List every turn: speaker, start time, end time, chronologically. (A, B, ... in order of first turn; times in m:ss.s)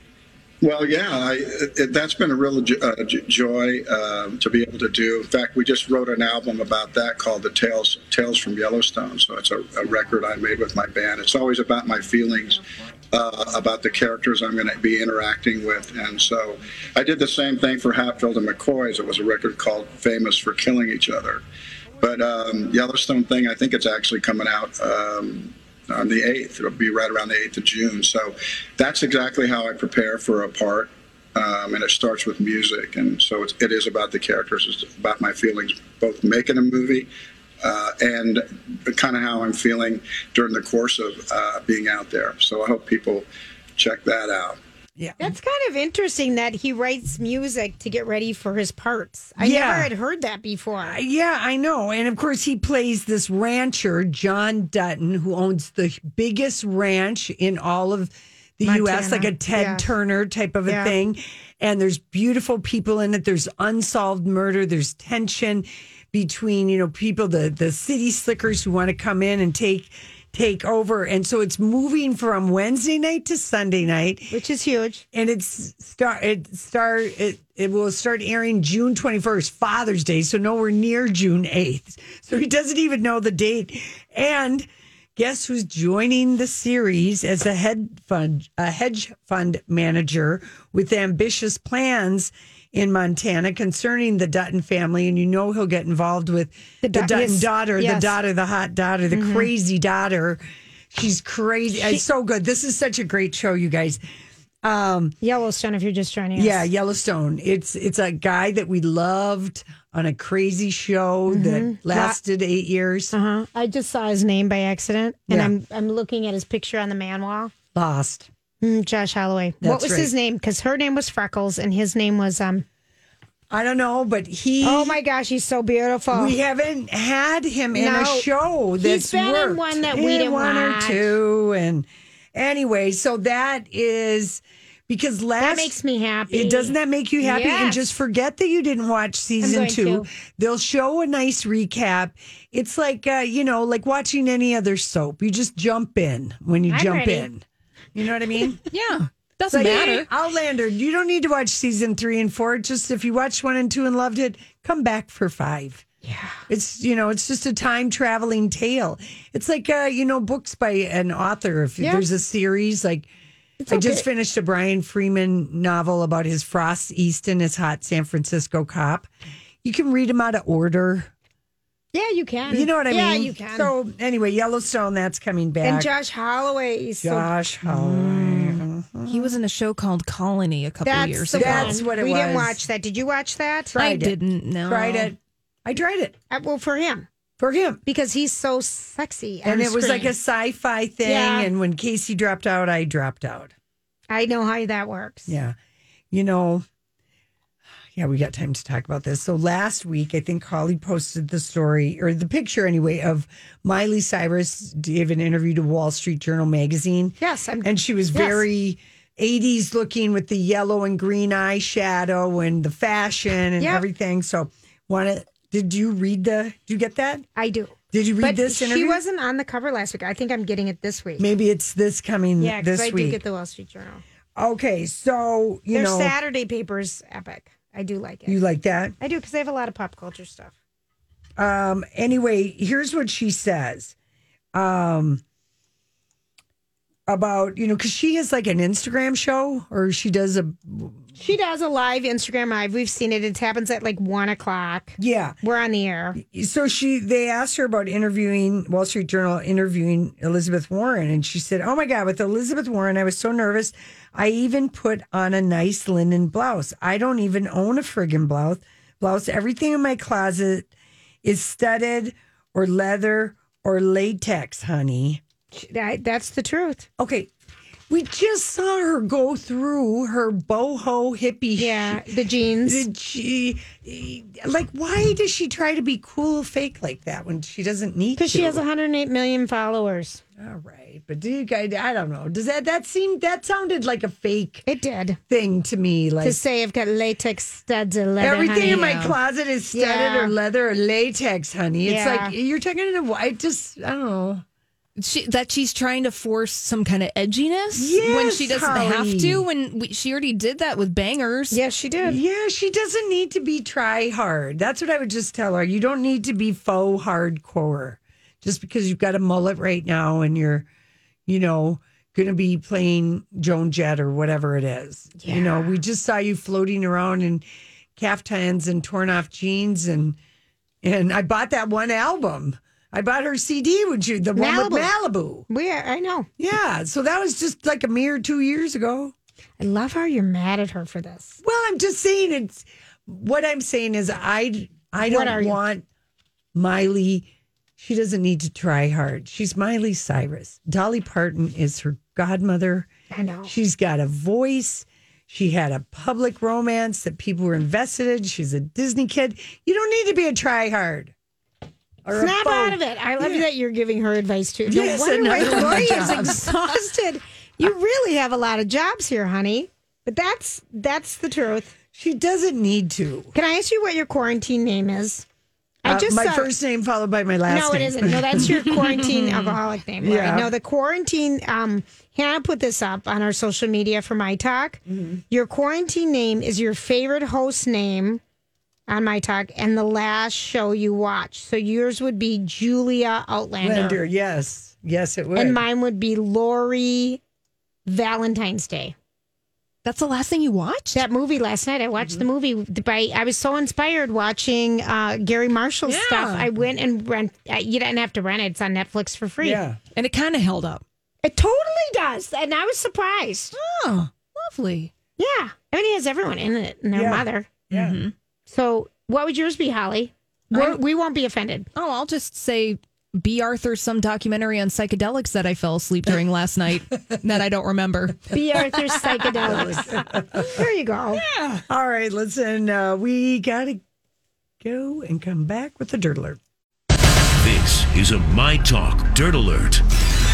0:00.6-0:21.4 A
0:22.0-0:37.1 A
0:37.6-0:43.2 A
0:43.8-0:44.6 A
0:45.0-0:45.3 B
0:45.2-0:51.0 C
0:49.4-0:49.9 B
0:50.8-1:14.3 B
0:58.6-0:59.9 C
1:00.7-1:00.9 C
1:14.3-1:15.0 C
1:15.1-1:40.4 B
1:36.8-1:38.1 C
1:39.1-1:39.5 C
1:40.9-1:44.0 B
1:41.8-1:42.0 C
1:44.6-1:45.2 B
1:45.2-1:46.6 C
1:46.3-1:53.1 B
1:51.3-1:52.2 C
1:53.1-1:57.5 C
1:57.7-1:58.3 B
1:58.6-2:02.6 C
1:59.6-2:00.1 B
2:03.5-2:05.0 B
2:04.6-2:06.3 C
2:06.1-2:15.8 B
2:07.8-2:08.3 C
2:08.8-2:11.1 C
2:15.4-2:17.9 C
2:16.3-2:27.4 B
2:19.4-2:20.1 C
2:26.7-2:27.2 C
2:27.9-2:28.6 B
2:28.7-2:30.1 D
2:29.5-2:35.8 B
2:36.0-2:36.4 C
2:36.5-2:43.1 B
2:43.6-2:44.0 C
2:43.7-2:49.1 B
2:49.6-2:51.1 B
2:51.9-2:53.7 C
2:52.5-2:55.9 B
2:55.6-2:57.3 C
2:57.0-2:59.3 B
2:57.6-3:01.8 D
3:00.8-3:03.7 C
3:01.3-3:02.6 B
3:03.7-3:06.2 B
3:03.8-3:05.1 D
3:06.3-3:07.1 C
3:07.4-3:07.8 B
3:07.8-3:10.1 C
3:09.4-3:13.5 B
3:11.0-3:11.5 C
3:14.1-3:15.3 C
3:15.3-3:15.6 B
3:16.1-3:16.6 B
3:17.9-3:37.2 B
3:27.2-3:28.4 C
3:33.6-3:33.8 C
3:37.4-3:41.2 C
3:37.9-3:39.0 B
3:41.2-3:43.2 B
3:42.4-3:44.0 C
3:44.4-3:46.1 B
3:45.7-3:48.4 C
3:48.3-3:48.9 B
3:49.0-3:50.5 C
3:51.4-3:53.9 B
3:54.5-3:55.2 B
3:57.1-4:01.1 B
4:01.2-4:06.2 C
4:05.0-4:05.4 B
4:06.2-4:20.7 B
4:21.2-4:25.2 B
4:25.5-4:26.9 C
4:27.0-4:27.3 B
4:27.9-4:32.1 B
4:31.6-4:32.8 C
4:32.6-4:38.6 B
4:38.2-4:40.2 C
4:40.4-4:44.6 B
4:44.7-4:45.2 C
4:45.3-4:46.4 B
4:46.2-4:49.1 C
4:48.2-4:54.4 B
4:48.6-4:49.2 D
4:49.7-4:50.3 C
4:51.8-4:52.3 C
4:55.0-5:01.6 D
4:57.7-4:59.4 B
5:01.5-5:02.2 C
5:02.0-5:10.7 B
5:11.3-5:17.4 B
5:15.2-5:15.7 C
5:18.0-5:20.2 B
5:20.8-5:25.5 B
5:24.4-5:24.9 C
5:25.5-5:26.3 C
5:26.4-5:29.1 B
5:29.6-5:31.4 C
5:31.4-5:35.8 B
5:35.0-5:35.6 C
5:36.6-5:42.9 B
5:43.1-5:43.5 C
5:43.5-5:51.1 B
5:52.0-5:53.4 B
5:52.2-6:01.7 C
5:54.7-5:56.5 B
6:01.9-6:03.3 B
6:03.3-6:05.2 C
6:05.8-6:06.5 C
6:05.8-6:09.3 B
6:07.5-6:18.2 C
6:10.0-6:10.5 B
6:14.9-6:15.2 B
6:18.9-6:24.0 C
6:23.6-6:25.6 B
6:25.3-6:27.2 C
6:27.8-6:28.9 C
6:29.8-6:31.0 D
6:30.9-6:39.6 C
6:35.8-6:36.5 D
6:39.4-6:39.8 B
6:40.0-6:40.8 D
6:41.2-6:43.5 C
6:43.6-6:44.9 D
6:45.2-6:47.5 C
6:46.9-6:48.0 B
6:47.7-6:48.1 D
6:48.5-6:51.7 C
6:51.7-6:58.3 D
6:58.3-7:01.2 C
6:59.4-7:00.6 B
7:01.2-7:01.6 D
7:01.7-7:03.8 B
7:04.6-7:06.4 B
7:07.4-7:09.8 E